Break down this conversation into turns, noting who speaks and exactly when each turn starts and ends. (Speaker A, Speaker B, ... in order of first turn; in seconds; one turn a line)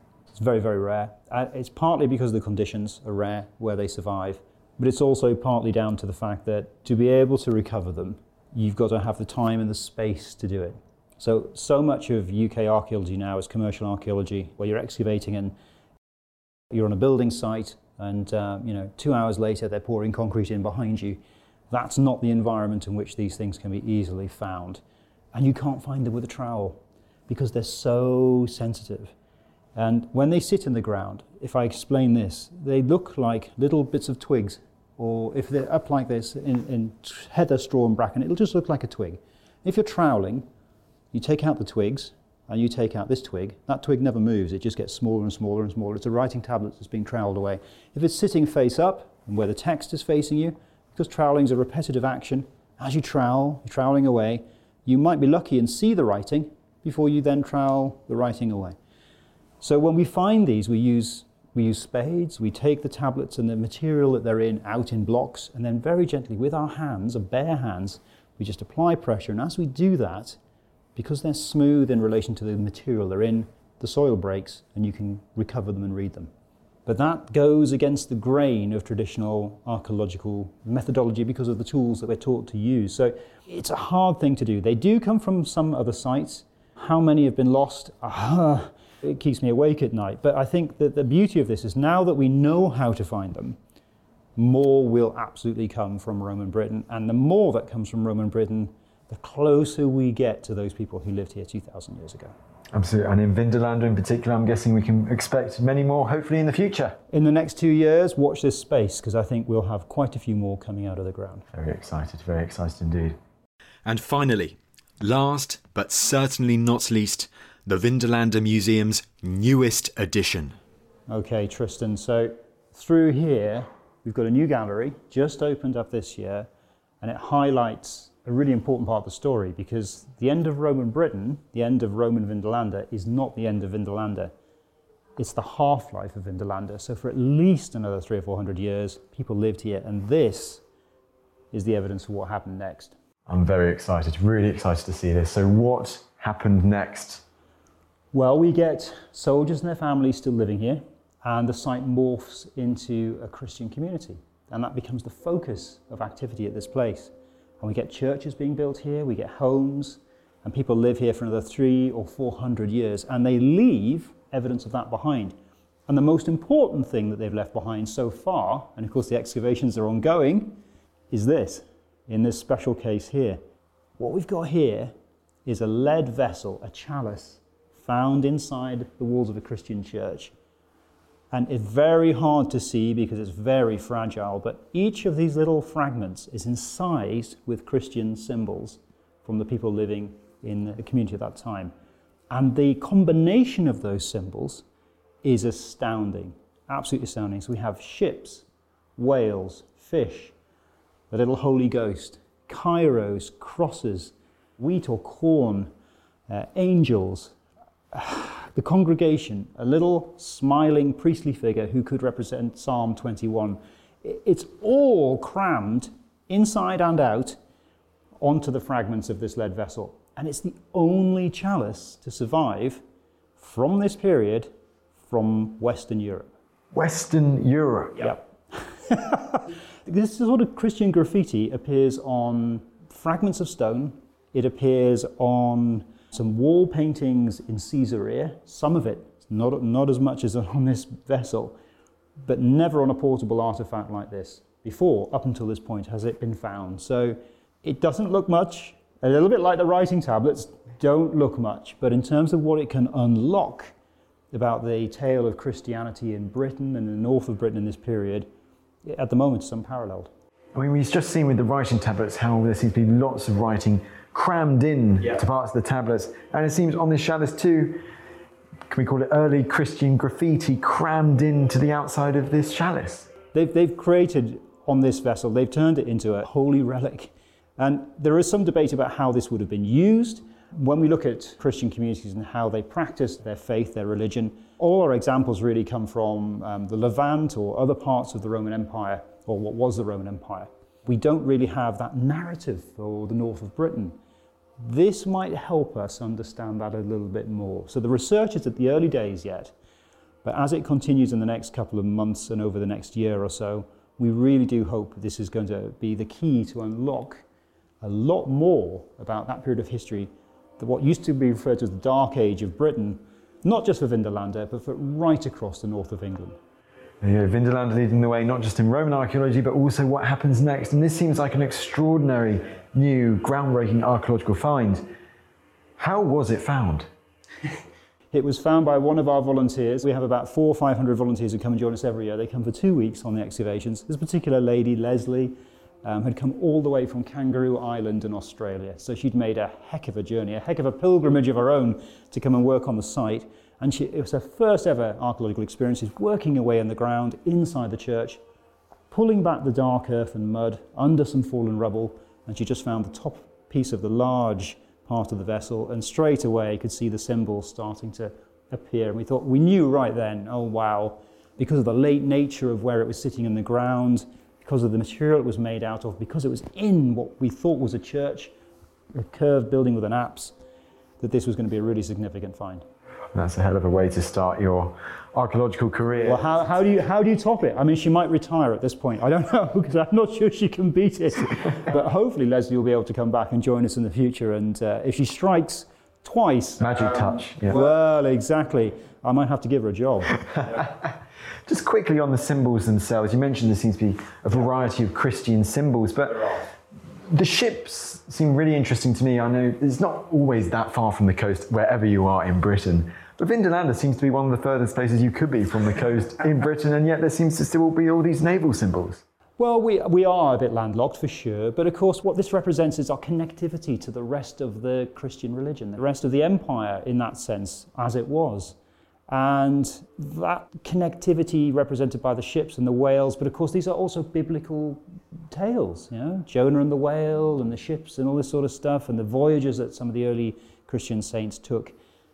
Speaker A: 0.3-15.5
Speaker A: 16.7-24.8
Speaker A: 25.3-29.1
Speaker A: 29.8-40.5
Speaker A: 41.1-58.8
Speaker A: 59.6-70.4
Speaker A: 70.9-76.3
Speaker A: 76.8-93.6
Speaker A: 94.3-102.3
Speaker B: 102.7-107.0
Speaker A: 107.1-111.5
Speaker B: 111.5-113.2
Speaker C: 113.8-120.6
Speaker A: 121.1-126.5
Speaker A: 127.0-134.3
Speaker A: 135.2-140.6
Speaker A: 141.5-142.9
Speaker B: 143.3-147.2
Speaker A: 148.1-165.4
Speaker A: 165.9-170.6
Speaker A: 171.1-173.4
Speaker A: 174.0-174.9
Speaker A: 175.4-180.3
Speaker A: 181.3-191.7
Speaker A: 192.3-194.6
Speaker A: 195.2-198.4
Speaker A: 199.0-200.3
Speaker A: 201.1-205.7
Speaker A: 206.3-207.3
Speaker A: 207.9-217.4
Speaker A: 218.2-222.8
Speaker A: 223.4-224.5
Speaker A: 225.1-226.3
Speaker B: 226.7-228.2
Speaker A: 228.0-241.6
Speaker A: 242.2-253.7
Speaker A: 254.3-258.3
Speaker A: 258.8-260.1
Speaker B: 260.5-267.8
Speaker B: 268.7-273.1
Speaker A: 273.3-294.0
Speaker A: 294.6-299.5
Speaker A: 300.2-307.2
Speaker A: 307.8-316.4
Speaker B: 317.0-324.8
Speaker B: 325.8-326.9
Speaker A: 328.1-348.2
Speaker A: 348.9-368.3
Speaker A: 368.9-370.3
Speaker A: 371.0-372.6
Speaker B: 373.1-376.3
Speaker A: 376.0-390.2
Speaker B: 386.6-387.6
Speaker B: 390.3-390.9
Speaker B: 391.4-396.4
Speaker B: 397.1-409.0
Speaker A: 409.4-418.6
Speaker A: 419.1-431.8